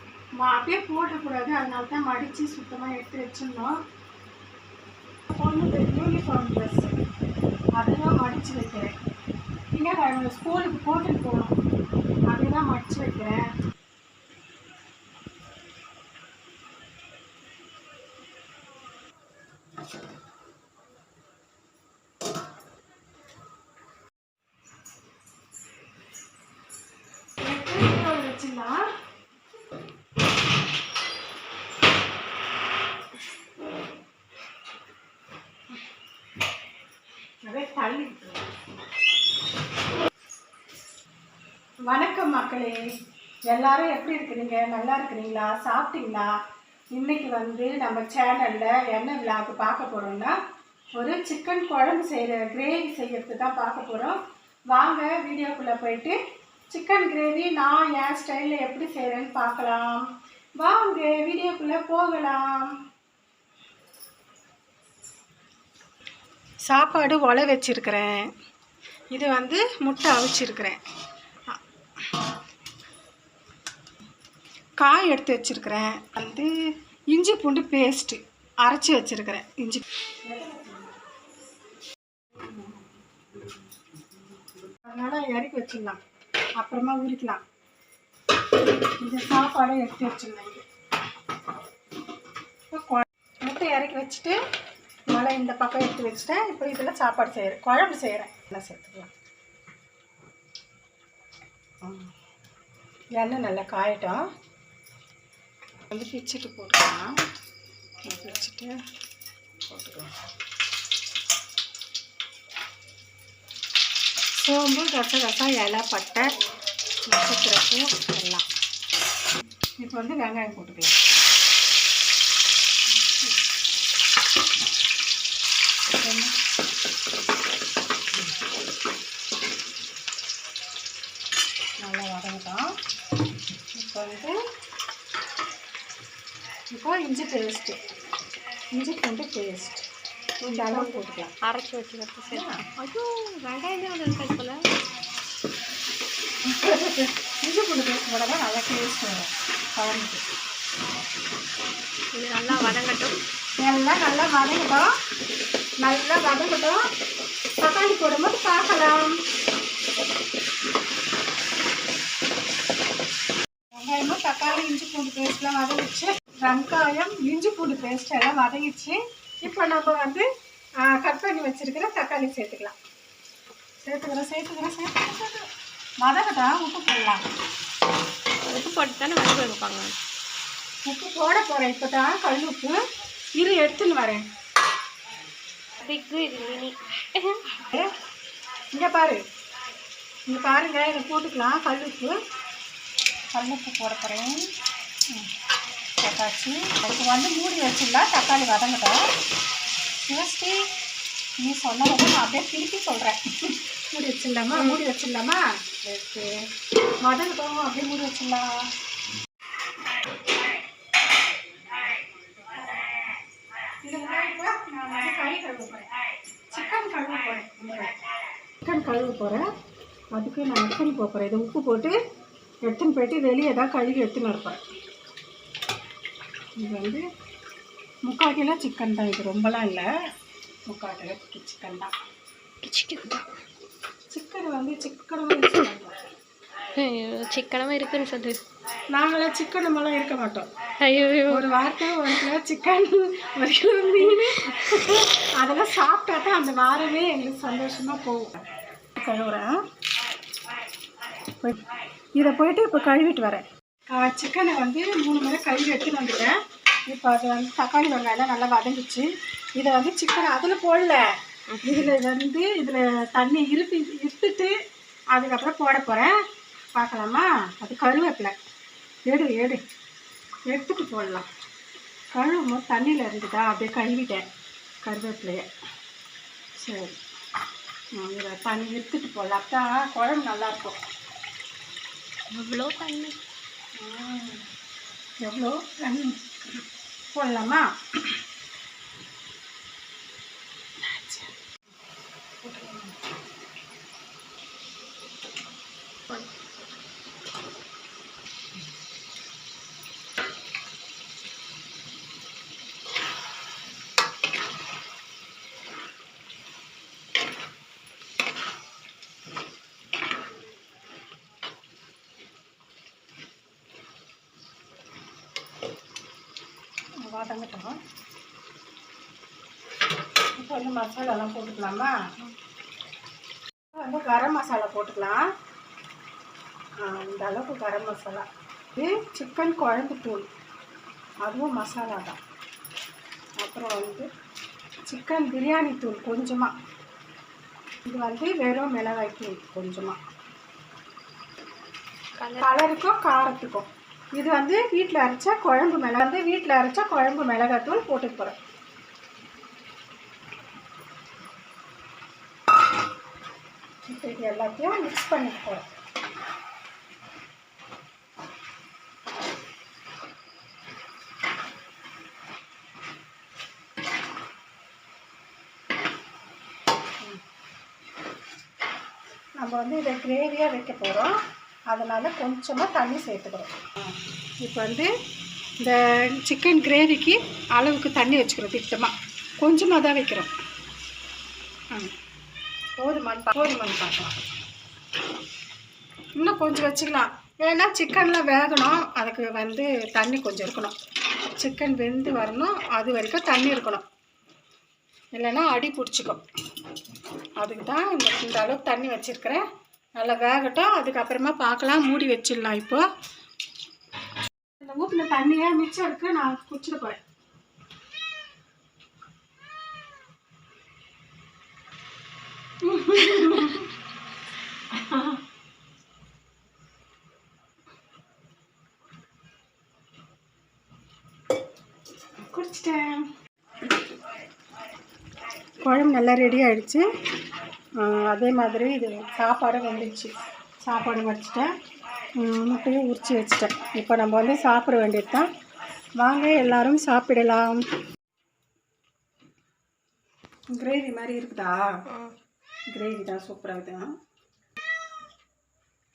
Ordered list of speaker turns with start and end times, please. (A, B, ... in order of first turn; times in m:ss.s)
0:00.4-0:03.8 A
0:05.3-0:07.0 A
0:07.8-0:08.9 A
0:09.7-0:11.6 A
0:12.3-0:13.4 A
0:27.4-0:28.9 A
0:37.4-0:38.4 A
0:41.9-0:42.8 A
0:43.4-0:46.3 A
0:46.9-0:50.4 A
0:51.0-0:54.2 A
0:54.7-0:56.2 A
0:56.7-1:00.0 A
1:00.6-1:02.7 A
1:06.6-1:08.3 A
1:09.1-1:10.8 A
1:14.8-1:16.5 A
1:17.1-1:20.9 A
1:22.4-1:22.8 A
1:24.7-1:26.0 A
1:26.6-1:27.4 A
1:29.0-1:30.6 A
1:32.7-1:34.4 A
1:35.1-1:39.1 A
1:41.8-1:42.1 A
1:43.2-1:44.2 A
1:45.9-1:47.1 A
1:48.0-1:48.8 A
1:49.7-1:50.1 A
1:54.4-1:56.3 A
1:57.1-1:58.4 A
1:59.8-2:01.0 A
2:06.0-2:06.3 A
2:11.8-2:12.6 A
2:13.7-2:14.3 A
2:16.7-2:17.8 A
2:18.7-2:19.8 A
2:20.4-2:24.6 B
2:20.4-2:21.3 A
2:22.3-2:22.6 A
2:26.4-2:30.2 A
2:32.1-2:33.2 B
2:33.6-2:34.9 A
2:35.8-2:36.8 A
2:37.6-2:39.2 A
2:43.7-2:50.2 A
2:50.8-2:52.7 A
2:53.8-2:55.4 A
2:56.0-2:57.2 A
2:58.4-2:59.9 B
3:00.8-3:02.8 A
3:03.4-3:04.2 A
3:05.8-3:07.4 B
3:07.5-3:07.9 A
3:08.7-3:09.2 A
3:10.3-3:12.1 A
3:13.3-3:14.5 A
3:16.0-3:19.0 A
3:20.0-3:20.7 A
3:21.4-3:26.5 A
3:24.5-3:24.8 B
3:27.0-3:28.5 A
3:33.8-3:35.9 A
3:36.5-3:38.0 A
3:38.6-3:39.4 A
3:40.1-3:41.9 A
3:42.6-3:44.6 A
3:46.6-3:47.0 A
3:48.0-3:49.9 A
3:50.7-3:51.9 A
3:52.6-3:53.2 B
3:54.1-3:56.0 A
3:56.7-3:58.4 B
3:58.9-4:00.5 A
4:00.8-4:01.5 B
4:01.3-4:09.6 A
4:04.3-4:04.6 B
4:11.4-4:11.6 A
4:12.2-4:16.4 A
4:16.9-4:21.0 A
4:21.5-4:21.9 B
4:21.6-4:24.5 A
4:25.1-4:26.1 A
4:26.7-4:28.3 A
4:29.1-4:29.6 A
4:30.5-4:31.3 A
4:32.1-4:34.2 A
4:34.8-4:35.5 A
4:36.6-4:37.0 A
4:37.9-4:40.8 A
4:42.3-4:43.2 B
4:43.8-4:44.4 A
4:45.2-4:46.2 A
4:47.1-4:48.2 A
4:50.8-4:51.3 A
4:52.4-4:53.0 A
5:17.0-5:17.8 A
5:20.4-5:21.9 A
5:23.7-5:25.2 A
5:26.8-5:30.3 A
5:31.2-5:32.2 A
5:33.4-5:34.1 A
5:34.9-5:36.5 A
5:37.8-5:40.0 A
5:42.2-5:42.5 B
5:42.4-5:48.4 A
5:53.8-5:55.7 A
6:09.4-6:11.2 A
6:11.7-6:14.9 A
6:15.6-6:20.3 A
6:22.8-6:24.1 A
6:26.2-6:30.7 A
6:31.4-6:33.8 A
6:35.1-6:36.2 A
6:37.4-6:39.4 A
6:40.0-6:42.8 A
6:44.6-6:47.0 A
6:52.6-6:53.7 A
6:54.7-6:55.2 A
7:02.2-7:03.1 A
7:05.6-7:06.8 A
7:07.8-7:10.1 A
7:10.6-7:11.5 A
7:12.2-7:15.3 A
7:16.0-7:17.6 A
7:20.5-7:21.6 A
7:22.7-7:23.9 A